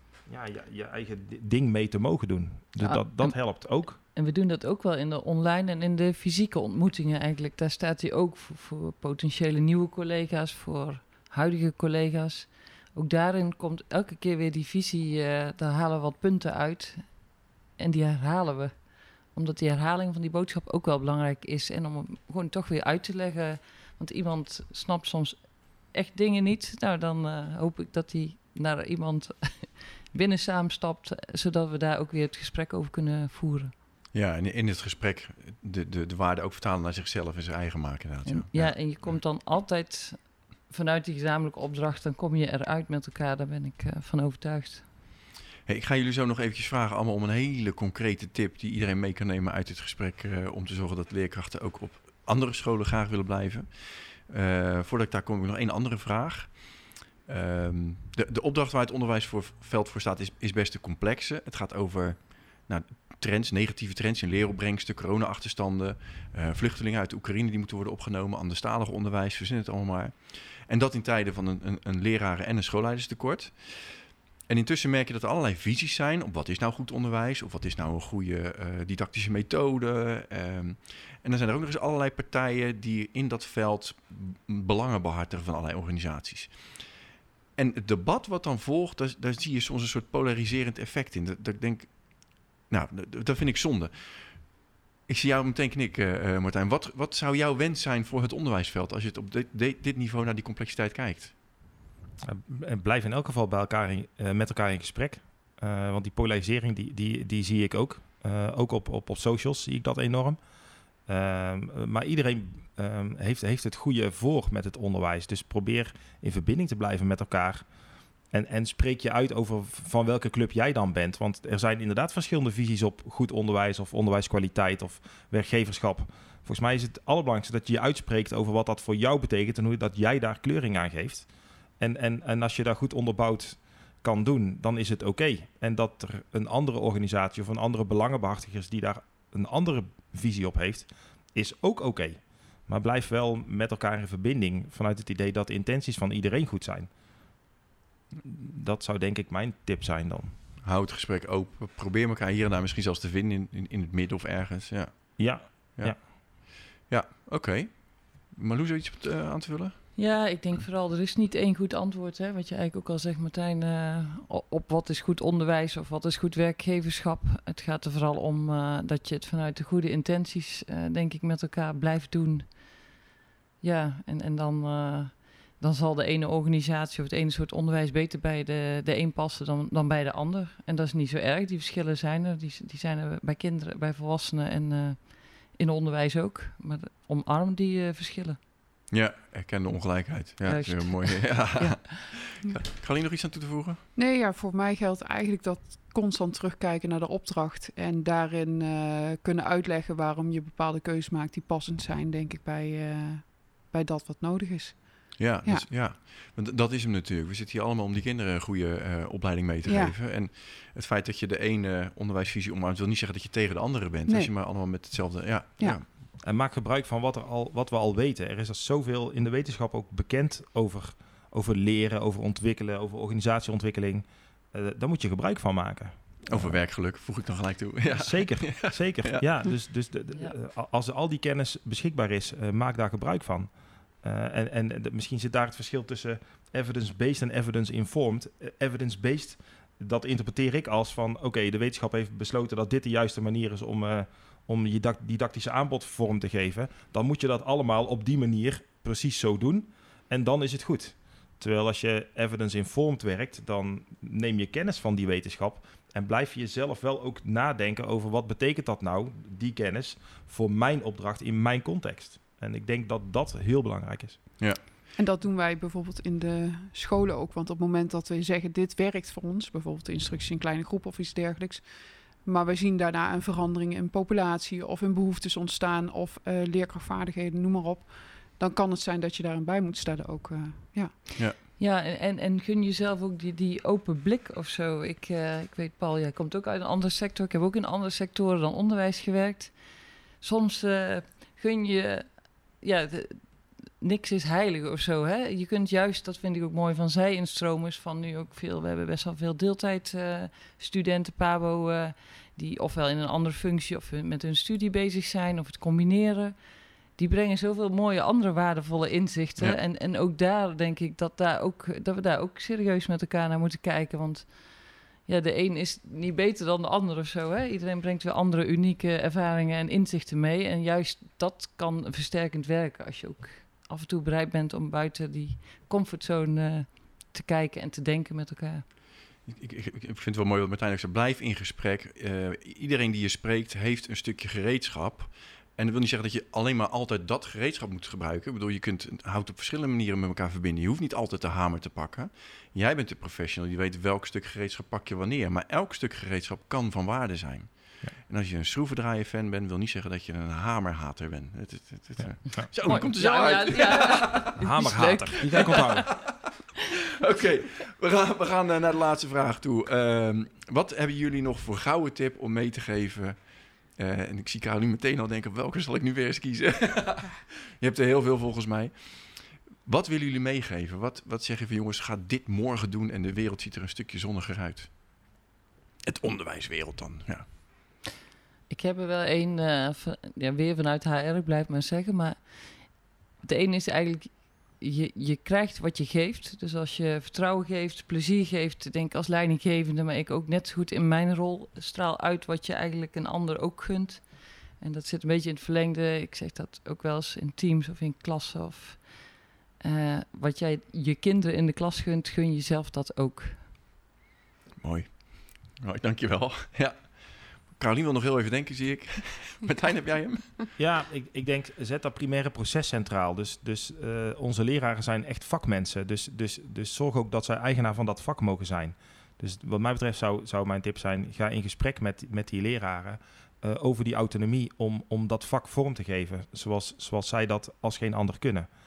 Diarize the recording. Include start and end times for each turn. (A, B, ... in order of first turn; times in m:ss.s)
0:00.2-0:04.0 A
0:02.8-0:33.7 B
0:34.1-0:39.1 C
0:38.3-0:44.9 B
0:45.7-1:26.9 C
1:27.6-1:41.4 C
1:42.2-1:50.4 A
1:51.1-1:57.7 A
1:58.3-2:11.3 A
2:11.8-2:26.9 A
2:28.2-2:30.4 A
2:30.6-2:40.0 C
2:35.2-2:36.0 A
2:40.0-2:52.9 B
2:53.6-3:08.4 B
3:08.9-3:13.8 C
3:10.4-3:11.8 B
3:14.0-3:25.7 D
3:25.2-3:35.9 C
3:29.6-3:30.0 D
3:34.1-3:34.3 D
3:36.1-3:46.6 A
3:46.2-3:49.2 C
3:47.9-3:53.5 A
3:54.0-4:24.4 A
4:25.0-4:41.1 D
4:41.6-5:28.7 B
5:29.2-5:54.3 C
5:52.0-5:52.5 A
5:52.5-5:55.9 B
5:54.4-5:56.0 A
5:55.5-5:55.8 C
5:57.0-6:14.8 C
6:15.9-6:17.3 C
6:18.5-6:43.4 B
6:44.6-6:50.4 C
6:50.6-7:08.5 A